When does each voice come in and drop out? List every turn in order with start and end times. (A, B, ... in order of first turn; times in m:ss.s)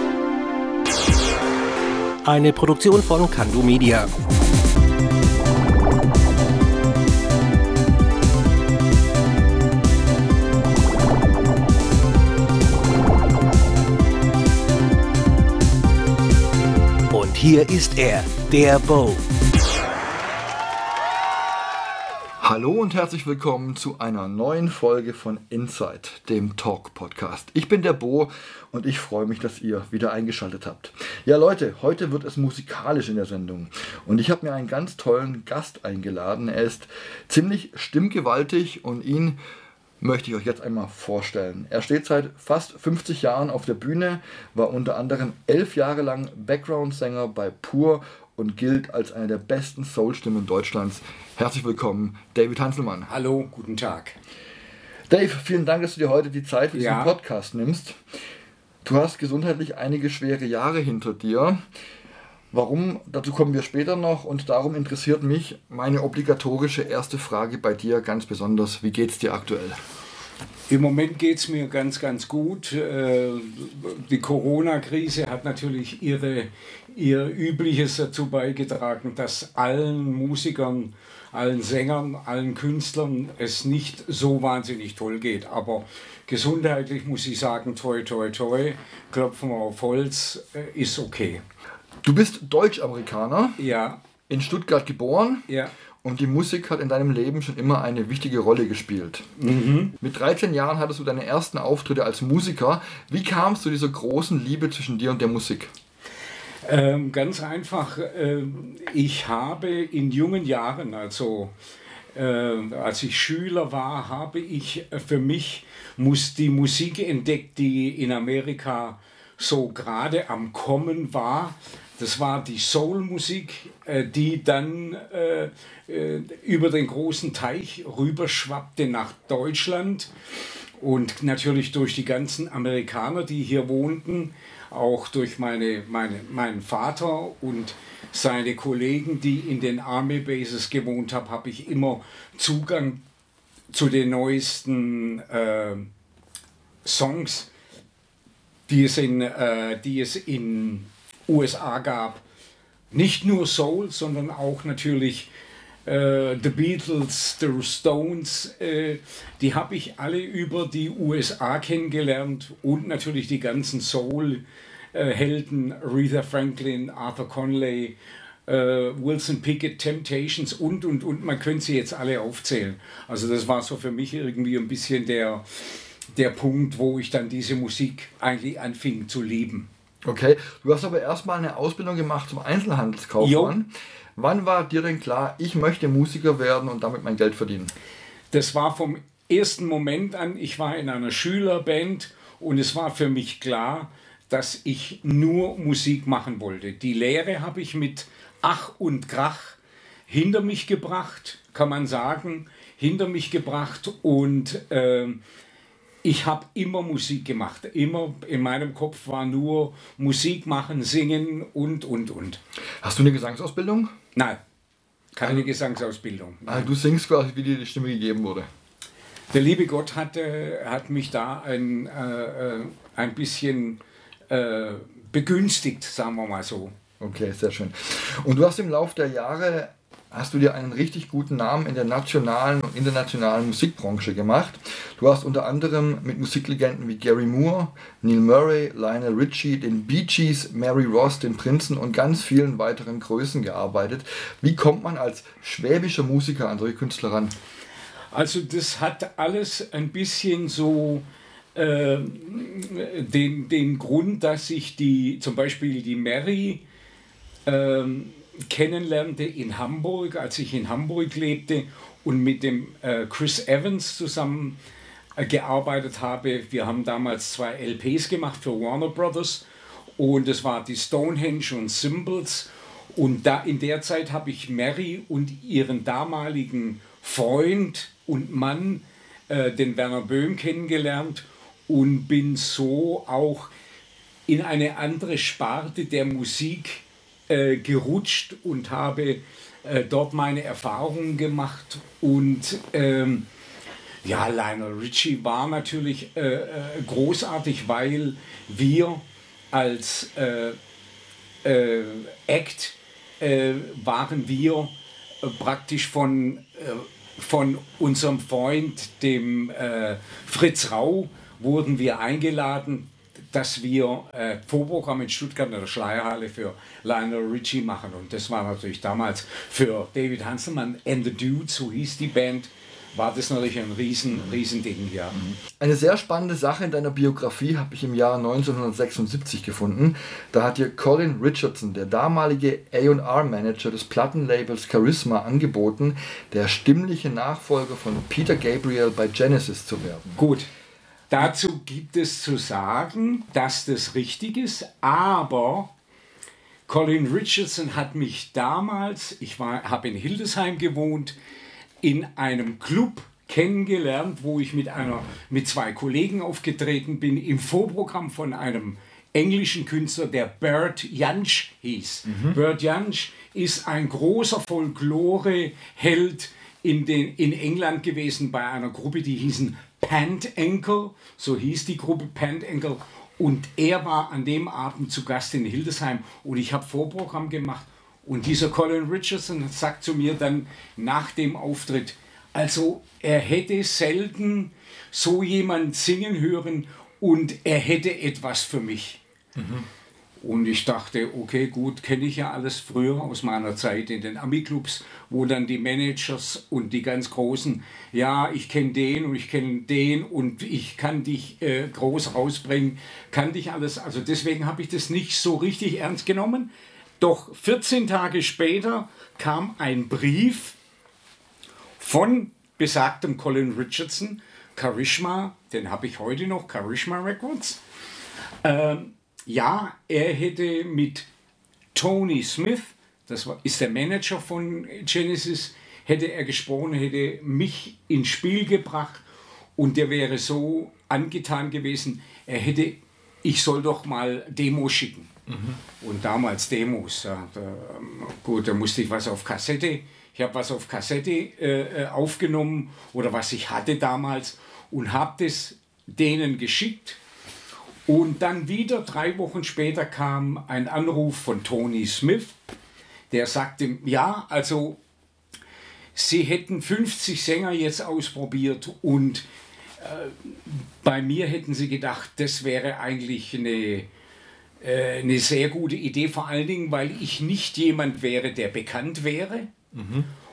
0:02.2-0:04.1 A
0:17.1-0:19.2 A
0:22.4-0:39.4 B
0:40.0-0:53.1 B
0:53.1-0:54.2 C
0:55.1-0:58.0 B
0:56.7-0:57.1 C
0:58.8-1:01.6 B
1:02.5-1:09.8 B
1:10.7-1:31.4 C
1:32.0-1:33.6 B
1:33.6-1:34.0 C
1:34.3-1:35.5 B
1:35.5-1:35.7 C
1:36.0-1:39.2 B
1:39.4-1:40.0 C
1:40.0-1:45.7 B
1:46.6-1:51.5 C
1:52.1-2:10.1 C
2:10.8-2:23.0 C
2:23.7-2:25.9 C
2:26.8-2:27.5 C
2:28.7-2:32.2 C
2:32.9-2:35.3 C
2:35.8-2:44.4 C
2:44.9-2:48.0 C
2:48.5-2:59.7 C
3:00.0-3:07.7 B
3:03.2-3:03.6 C
3:08.3-3:25.2 C
3:26.0-3:32.4 C
3:32.8-3:33.9 B
3:35.1-3:36.7 C
3:36.4-3:38.5 B
3:39.3-3:46.7 C
3:47.0-4:07.3 B
4:08.1-4:11.0 C
4:11.5-4:16.6 C
4:17.4-4:24.6 C
4:25.2-4:29.4 C
4:30.0-4:43.5 C
4:44.3-4:53.3 C
4:54.0-5:00.6 C
5:01.4-5:25.2 C
5:25.1-5:40.2 B
5:40.2-5:40.5 C
5:41.1-5:45.7 C
5:46.7-5:51.1 C
5:51.8-6:29.0 C
6:02.0-6:02.4 B
6:29.4-6:29.7 B
6:30.2-6:50.6 C
6:51.8-6:57.6 C
6:58.4-7:01.1 C
7:01.7-7:09.0 C
7:09.6-7:15.1 C
7:15.3-7:15.6 B
7:15.8-7:27.0 C
7:27.9-7:32.4 C
7:33.1-7:34.8 C
7:35.9-7:39.2 C
7:39.8-7:43.9 C
7:44.6-7:49.5 C
7:49.7-7:50.1 B